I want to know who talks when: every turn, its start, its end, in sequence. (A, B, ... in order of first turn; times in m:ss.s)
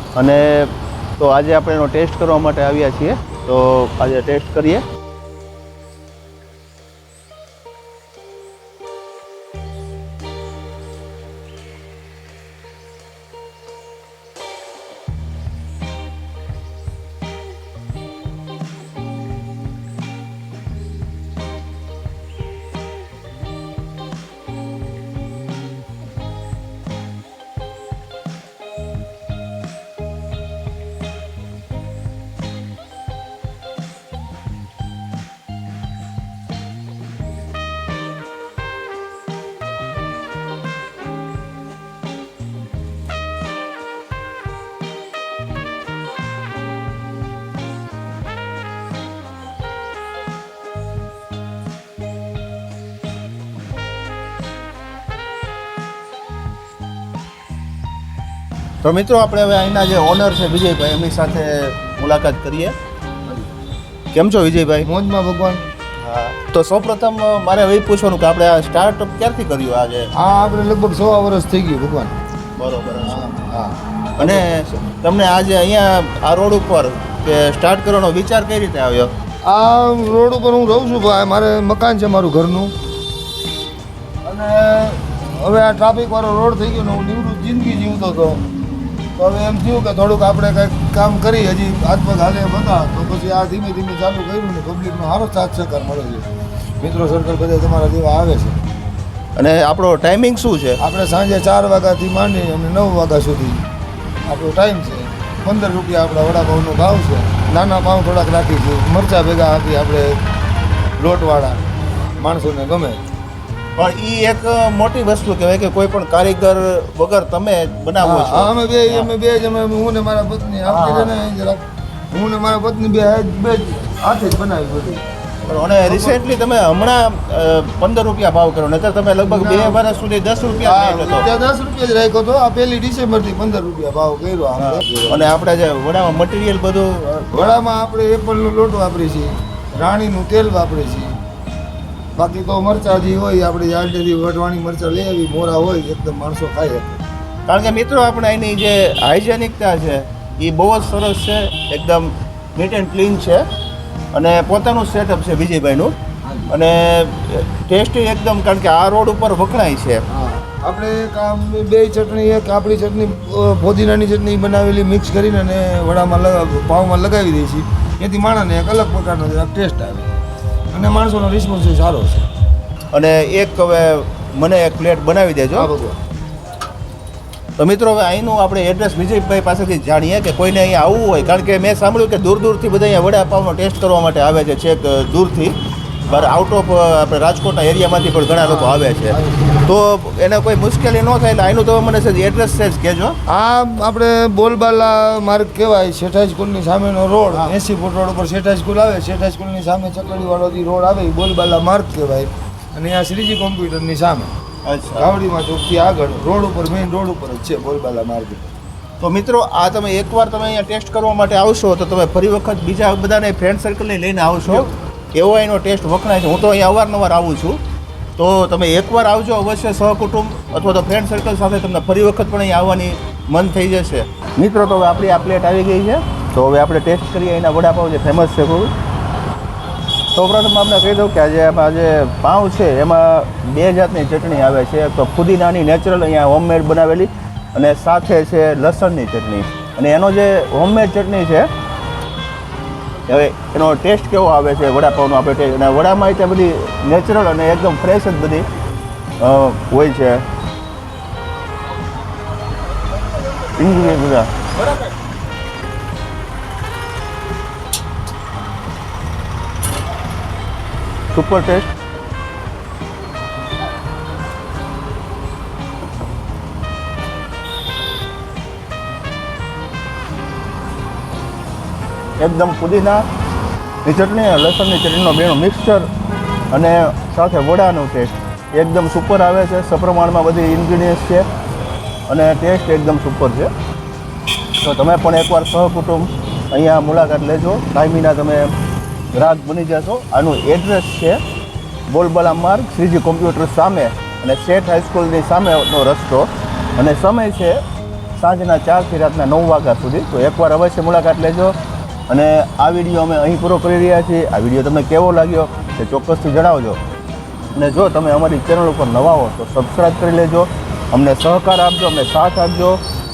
0:00.2-0:04.8 A
0:58.8-1:02.7 A
1:04.1-1:04.9 A
1:04.8-1:05.6 B
1:06.0-1:10.1 A
1:10.1-1:12.1 B
1:12.6-1:13.2 A
1:13.0-1:14.5 B
1:14.2-1:19.1 A
1:19.5-1:22.7 B
1:24.2-1:28.4 B
1:29.2-1:36.3 B
1:36.8-1:38.6 B
1:39.4-1:40.8 A
1:40.8-1:43.6 B
1:44.3-1:50.1 B
1:51.0-1:51.6 B
1:52.2-1:53.0 B
1:53.8-1:59.1 A
1:58.0-2:05.0 B
2:00.6-2:01.1 A
2:05.4-2:11.2 A
2:05.8-2:06.3 B
2:09.2-2:15.4 B
2:14.6-2:17.3 A
2:17.3-2:21.1 B
2:22.2-2:27.0 B
2:27.5-2:33.4 A
2:34.1-2:36.0 A
2:36.2-2:36.5 B
2:36.5-2:40.0 A
2:40.1-2:50.1 B
2:50.7-2:52.2 B
2:52.9-2:55.7 A
2:55.5-2:56.0 B
2:57.6-3:05.6 A
3:06.1-3:13.1 A
3:08.4-3:09.7 B
3:13.3-3:24.3 B
3:24.6-3:25.1 A
3:24.9-3:28.5 B
3:29.0-3:37.6 A
3:38.2-3:48.7 A
3:50.1-4:01.5 A
4:03.1-4:08.5 A
4:09.2-4:10.2 A
4:13.5-4:14.3 A
4:21.1-4:21.7 A
4:32.2-4:33.0 A
4:33.8-4:35.9 A
4:36.5-4:41.2 A
4:42.1-4:43.5 A
4:44.6-4:48.5 A
4:49.1-4:51.2 A
4:51.9-4:57.6 A
4:58.2-5:01.6 A
5:02.1-5:06.8 A
5:07.5-5:12.8 A